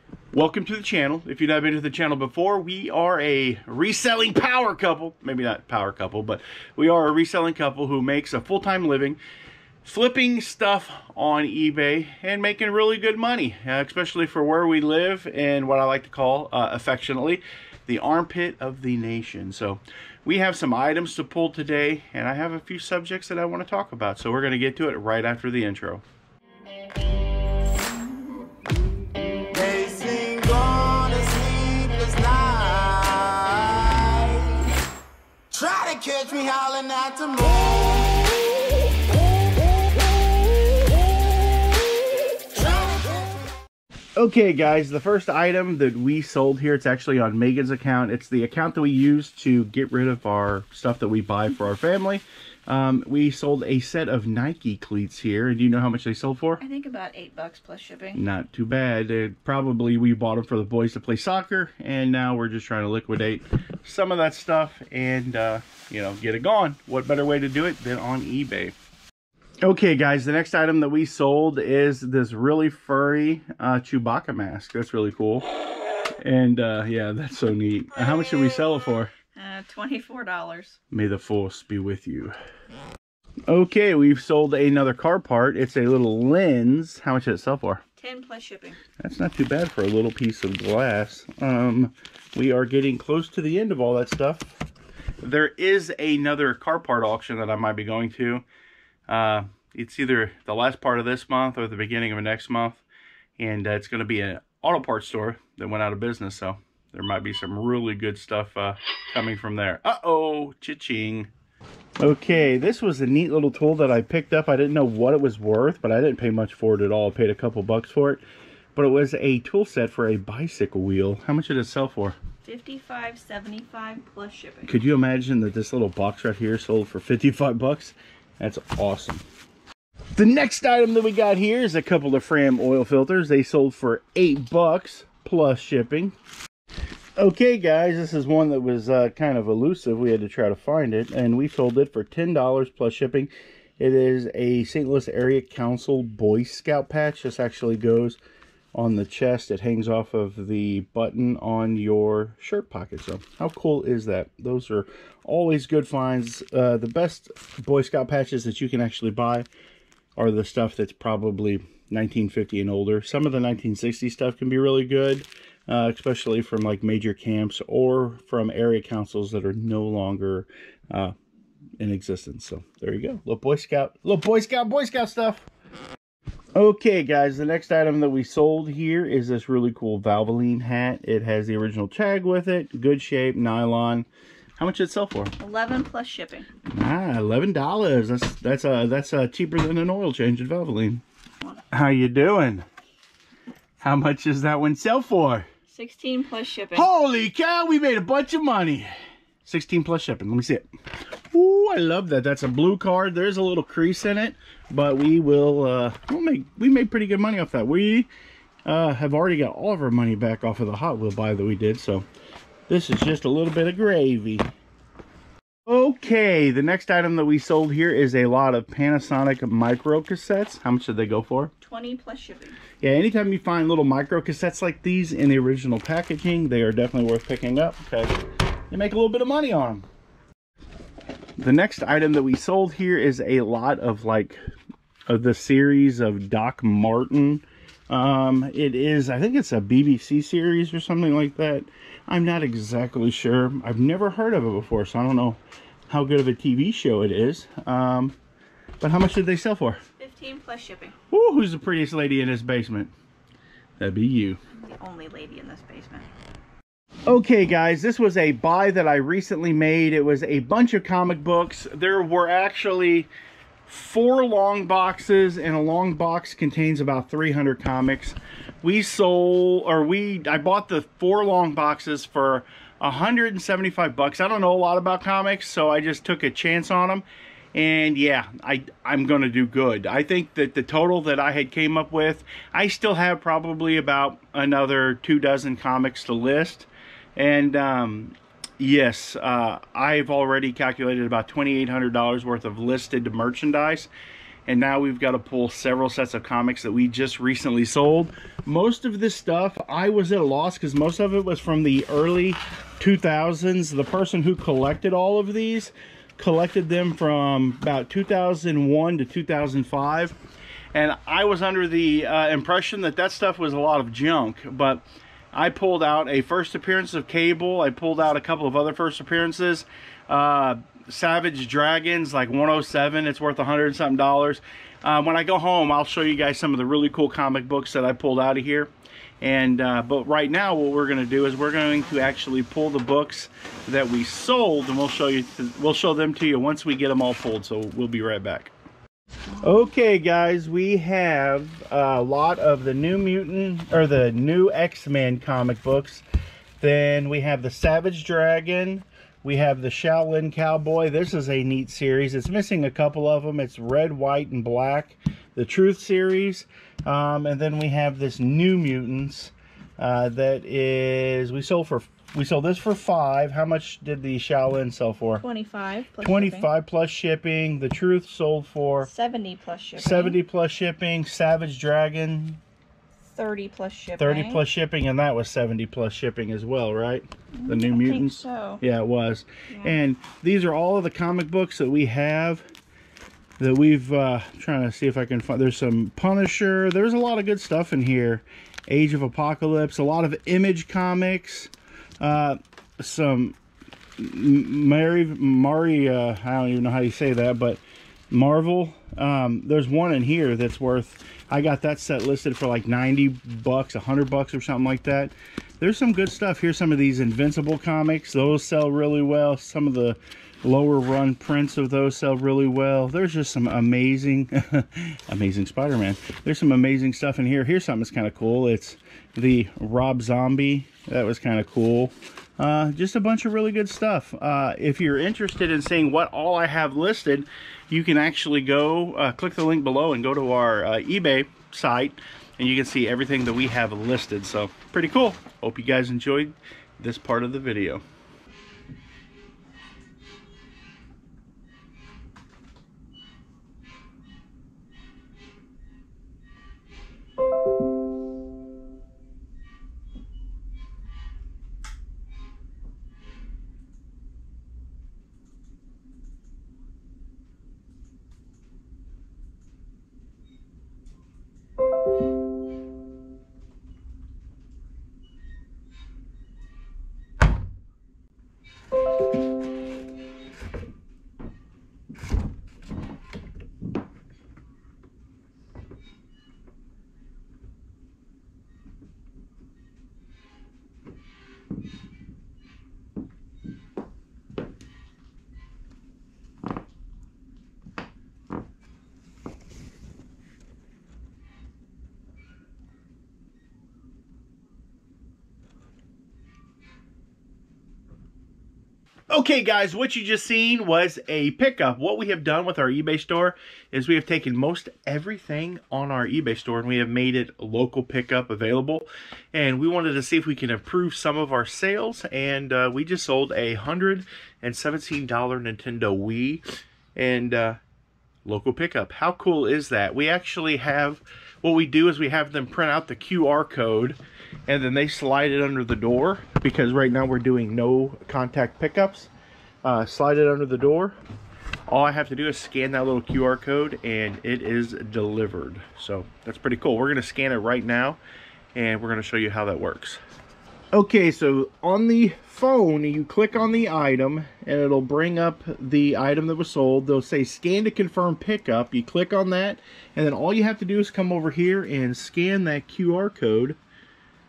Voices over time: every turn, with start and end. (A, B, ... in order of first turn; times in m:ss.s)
0:00.3-0:09.2 A
0:09.8-0:26.0 A
0:29.7-0:34.7 B
0:35.5-0:38.2 B
0:44.2-0:56.6 A
0:56.6-0:58.2 C
0:58.2-1:08.7 A
1:09.6-1:15.4 A
1:16.2-1:19.1 A
1:19.4-1:20.8 C
1:20.9-1:22.3 A
1:23.5-1:27.8 A
1:28.0-1:28.8 C
1:29.0-1:34.5 A
1:35.2-1:38.4 A
1:39.1-1:42.8 A
1:43.4-1:51.3 A
1:52.0-1:58.2 A
1:58.7-2:02.2 A
2:02.4-2:04.8 C
2:04.7-2:09.2 A
2:10.2-2:16.2 A
2:17.2-2:28.2 A
2:28.7-2:39.5 A
2:40.2-2:51.1 A
2:51.8-2:55.4 A
2:56.5-3:04.1 A
3:04.6-3:05.3 A
3:05.4-3:06.5 C
3:06.7-3:11.0 A
3:11.7-3:12.6 A
3:13.8-3:15.4 A
3:15.7-3:16.9 C
3:16.7-3:18.9 A
3:19.4-3:20.7 A
3:21.3-3:28.1 A
3:28.6-3:32.0 A
3:32.7-3:34.5 A
3:35.6-3:41.5 A
3:41.6-3:42.6 C
3:42.8-3:48.1 A
3:48.7-3:49.8 A
3:51.4-3:54.4 A
3:55.1-4:08.2 A
4:08.8-4:09.8 A
4:10.0-4:10.9 C
4:11.1-4:12.9 A
4:13.8-4:14.4 A
4:14.6-4:16.1 C
4:17.1-4:23.1 A
4:23.6-4:53.9 A
4:54.5-5:10.2 A
5:10.7-5:28.7 A
5:29.2-5:38.5 A
5:39.4-5:46.0 A
5:46.6-6:05.2 A
6:05.2-6:06.5 C
6:06.0-6:08.9 A
6:08.8-6:10.2 C
6:09.8-6:12.4 A
6:13.1-6:14.4 C
6:14.0-6:22.4 A
6:17.4-6:18.6 C
6:19.5-6:19.8 C
6:23.4-6:33.4 A
6:34.0-7:17.8 A
8:19.1-8:36.4 A
8:37.0-8:37.6 A
8:38.2-8:49.1 A
8:49.6-8:51.0 A
8:51.7-8:58.0 A
8:58.5-9:00.0 A
9:00.7-9:13.6 A